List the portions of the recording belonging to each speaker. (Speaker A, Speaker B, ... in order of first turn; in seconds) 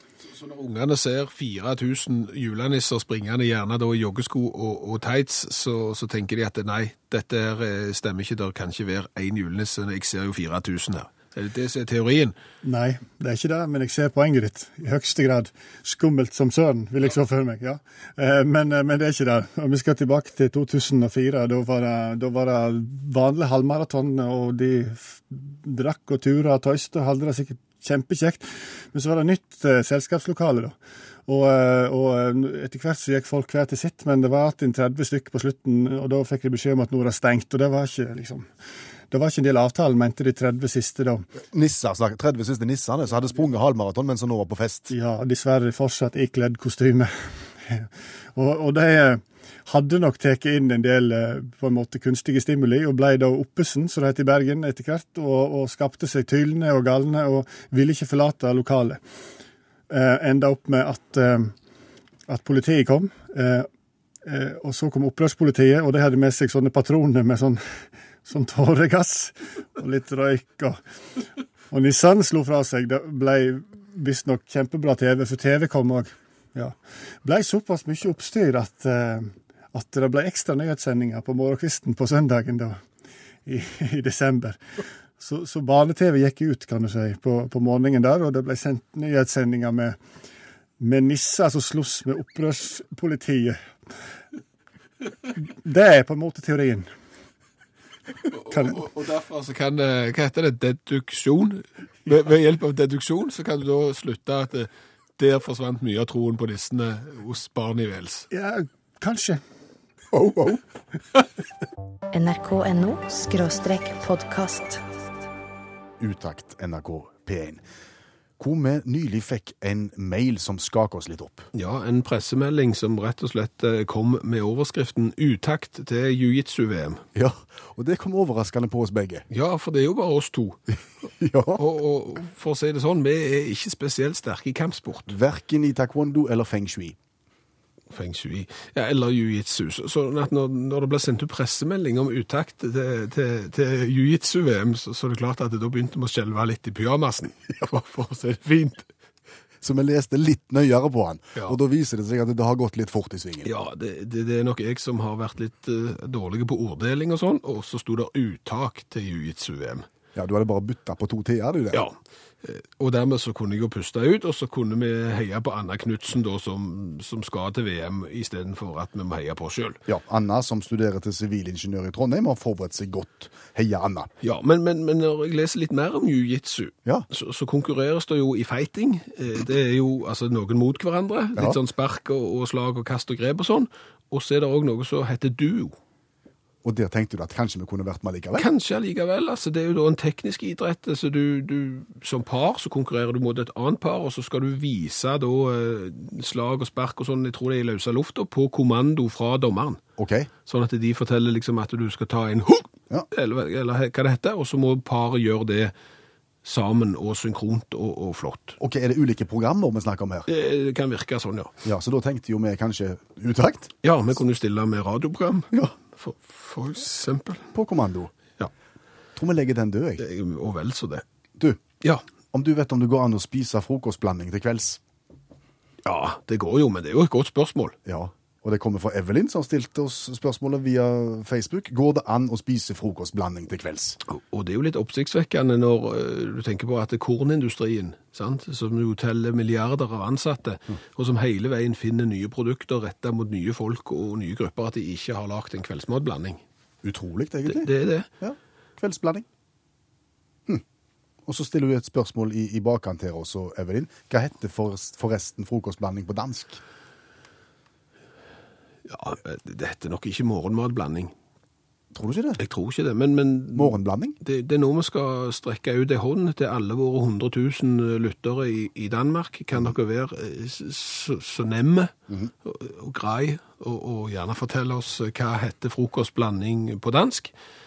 Speaker A: 0.2-12.3, 98.3-108.3, 121.5-127.0, 129.3-130.6, 131.6-135.1, 137.9-148.9, 153.4-159.8, 161.7-169.8, 174.2-185.7, 188.4-199.8, 200.4-205.7, 206.4-208.6, 210.3-211.5, 213.8-217.5, 220.0-221.0, 225.8-227.8, 234.1-246.4, 247.5-248.1, 258.9-261.1, 262.4-271.9, 272.4-277.3
Speaker B: 12.6-38.5, 39.1-41.3, 44.9-59.0, 59.9-61.5, 62.3-63.7, 64.2-67.6, 68.2-70.8, 71.7-82.8, 83.5-84.6, 85.2-90.0, 90.8-93.7, 95.3-96.9, 98.5-98.8, 108.3-109.4
Speaker C: 41.4-44.9, 110.1-110.6, 116.0-117.6, 118.4-121.5, 127.1-129.3, 131.2-131.6, 135.1-136.9, 149.6-153.5, 160.1-161.8, 169.9-174.1, 186.6-188.5, 200.0-200.3, 208.6-210.3, 211.6-213.7, 217.5-218.1, 219.2-220.0, 222.3-224.8, 227.8-234.0, 246.8-249.2, 251.2-256.6, 261.9-262.4, 263.5-264.2
Speaker D: 112.1-114.8